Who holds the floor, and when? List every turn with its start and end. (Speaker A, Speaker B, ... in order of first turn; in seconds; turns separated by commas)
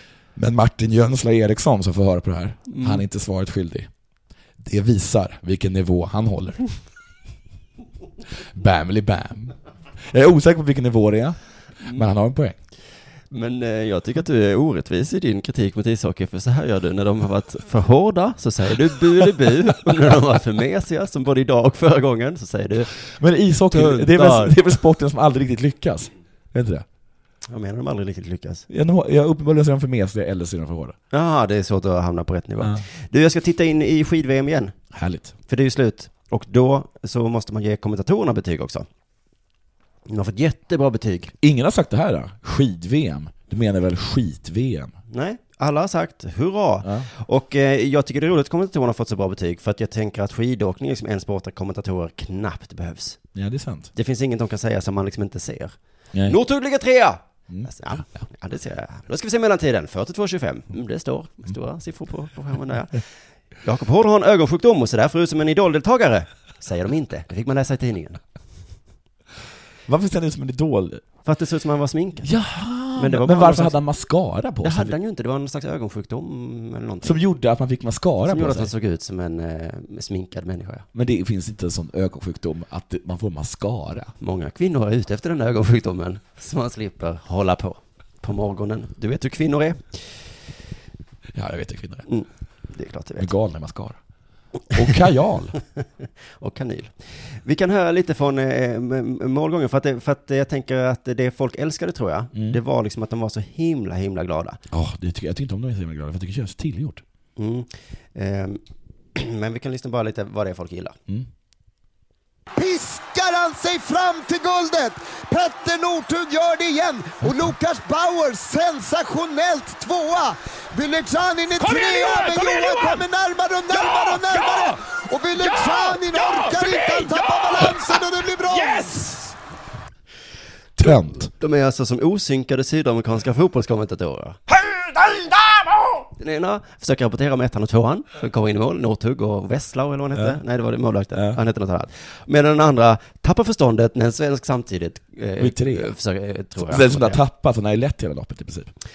Speaker A: 0.4-3.9, Speaker B: 2.7-3.0, Speaker A: 4.6-6.7, Speaker A: 8.5-12.6, Speaker B: 13.3-23.0, Speaker A: 23.1-26.9, Speaker B: 23.7-24.6, Speaker B: 27.5-28.7, Speaker A: 28.7-31.0, Speaker B: 31.1-34.8, Speaker A: 34.9-35.3, Speaker B: 35.5-38.9, Speaker B: 40.1-41.3, Speaker A: 41.4-44.9, Speaker B: 45.1-53.2, Speaker A: 46.8-47.1, Speaker A: 53.3-53.9, Speaker B: 53.9-63.1, Speaker B: 63.6-68.2, Speaker A: 69.9-71.0, Speaker B: 71.2-72.3, Speaker A: 72.2-74.9, Speaker B: 73.0-73.8, Speaker B: 74.6-77.2, Speaker A: 77.0-78.7, Speaker B: 78.3-80.9, Speaker A: 80.9-84.2, Speaker B: 84.2-90.2, Speaker A: 91.3-92.1, Speaker B: 92.1-93.3, Speaker A: 93.2-94.0, Speaker A: 94.7-95.6, Speaker B: 96.4-104.6, Speaker A: 104.7-107.0, Speaker B: 107.4-108.6, Speaker B: 109.2-111.0, Speaker C: 112.6-129.3, Speaker A: 130.8-131.3, Speaker B: 131.3-134.4, Speaker B: 136.2-147.2, Speaker A: 140.2-140.4, Speaker A: 141.1-141.4, Speaker A: 145.4-145.9, Speaker A: 146.6-148.7